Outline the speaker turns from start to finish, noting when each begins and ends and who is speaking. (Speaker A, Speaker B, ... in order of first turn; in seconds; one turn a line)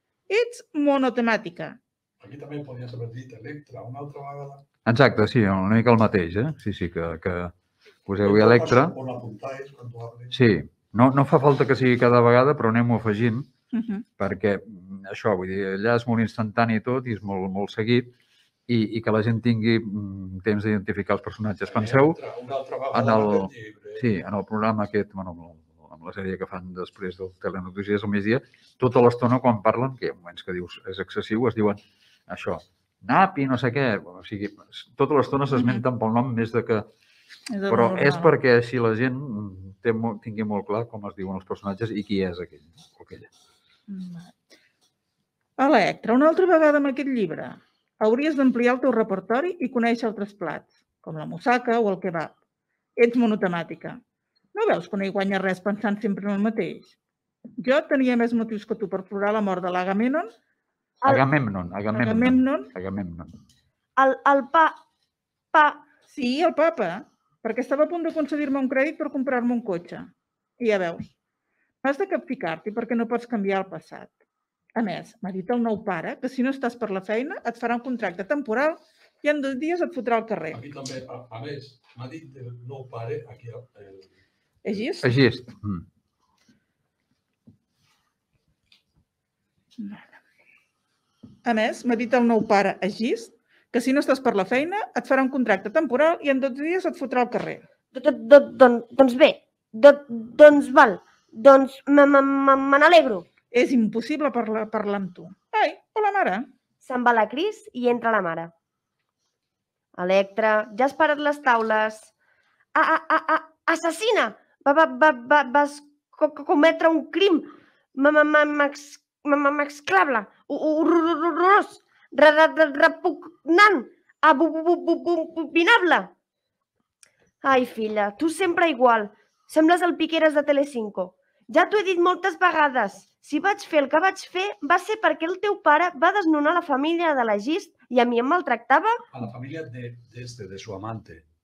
Speaker A: 0.3-1.8
Speaker B: 2.2-4.6
Speaker C: 4.8-7.5
Speaker C: 8.1-8.9
Speaker B: 8.2-10.3
Speaker C: 10.3-13.5
Speaker A: 13.7-14.0
Speaker C: 14.2-18.1
Speaker C: 18.7-22.2
Speaker B: 21.6-24.0
Speaker C: 22.9-36.9
Speaker A: 35.5-35.8
Speaker A: 37.5-38.3
Speaker C: 37.7-43.3
Speaker A: 43.9-44.4
Speaker A: 45.6-52.3
Speaker A: 53.0-54.0
Speaker A: 54.5-56.9
Speaker A: 57.6-60.3
Speaker C: 61.0-63.3
Speaker A: 61.9-62.7
Speaker D: 64.0-64.8
Speaker D: 65.5-65.8
Speaker A: 66.1-70.1
Speaker A: 70.6-71.1
Speaker A: 71.8-74.1
Speaker A: 74.8-80.6
Speaker B: 80.5-84.1
Speaker A: 84.6-85.1
Speaker C: 85.0-85.8
Speaker A: 89.8-90.1
Speaker A: 91.4-97.6
Speaker D: 97.9-103.3
Speaker A: 103.5-106.5
Speaker D: 106.8-108.5
Speaker D: 110.0-112.1
Speaker D: 112.7-126.1
Speaker D: 127.4-139.0
Speaker B: 139.1-141.2